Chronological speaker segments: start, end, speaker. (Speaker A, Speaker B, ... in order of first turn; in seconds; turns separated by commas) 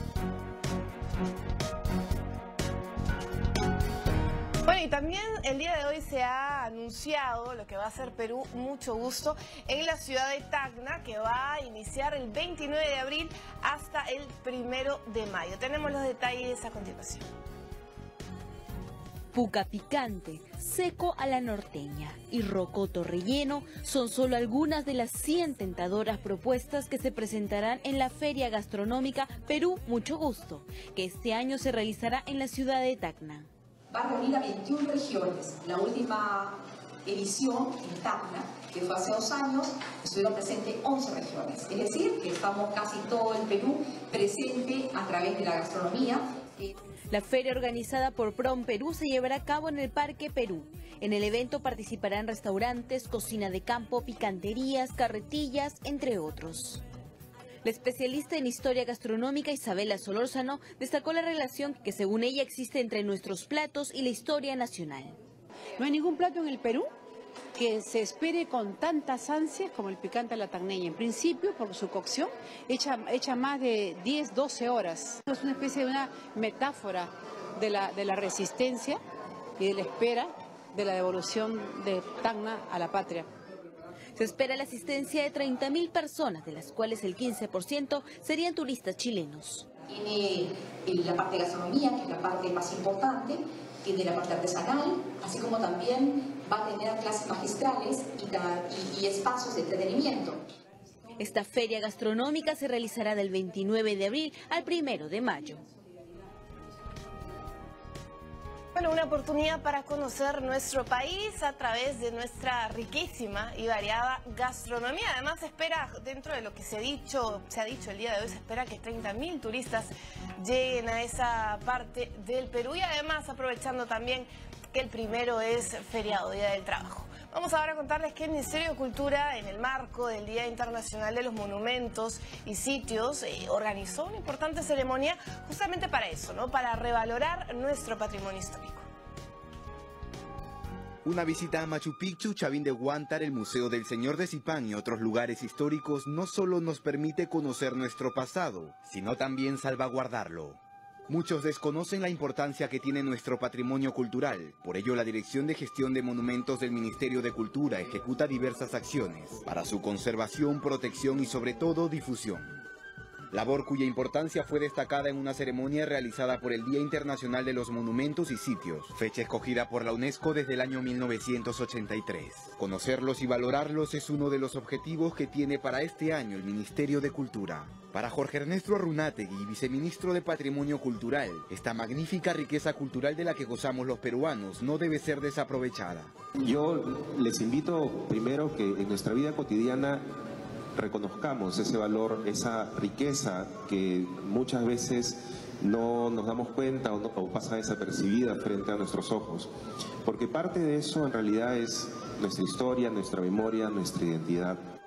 Speaker A: 4.7-17.3, Speaker B: 19.3-33.5, Speaker C: 33.9-46.7, Speaker B: 47.1-56.8, Speaker B: 57.6-65.1, Speaker D: 65.8-66.9, Speaker D: 67.5-79.0, Speaker D: 79.6-83.3, Speaker B: 84.2-89.7, Speaker C: 89.8-100.4, Speaker B: 101.2-105.6, Speaker A: 108.7-138.8, Speaker E: 141.0-162.5, Speaker E: 163.3-186.1, Speaker F: 186.4-190.0, Speaker F: 190.8-199.5, Speaker F: 200.0-204.6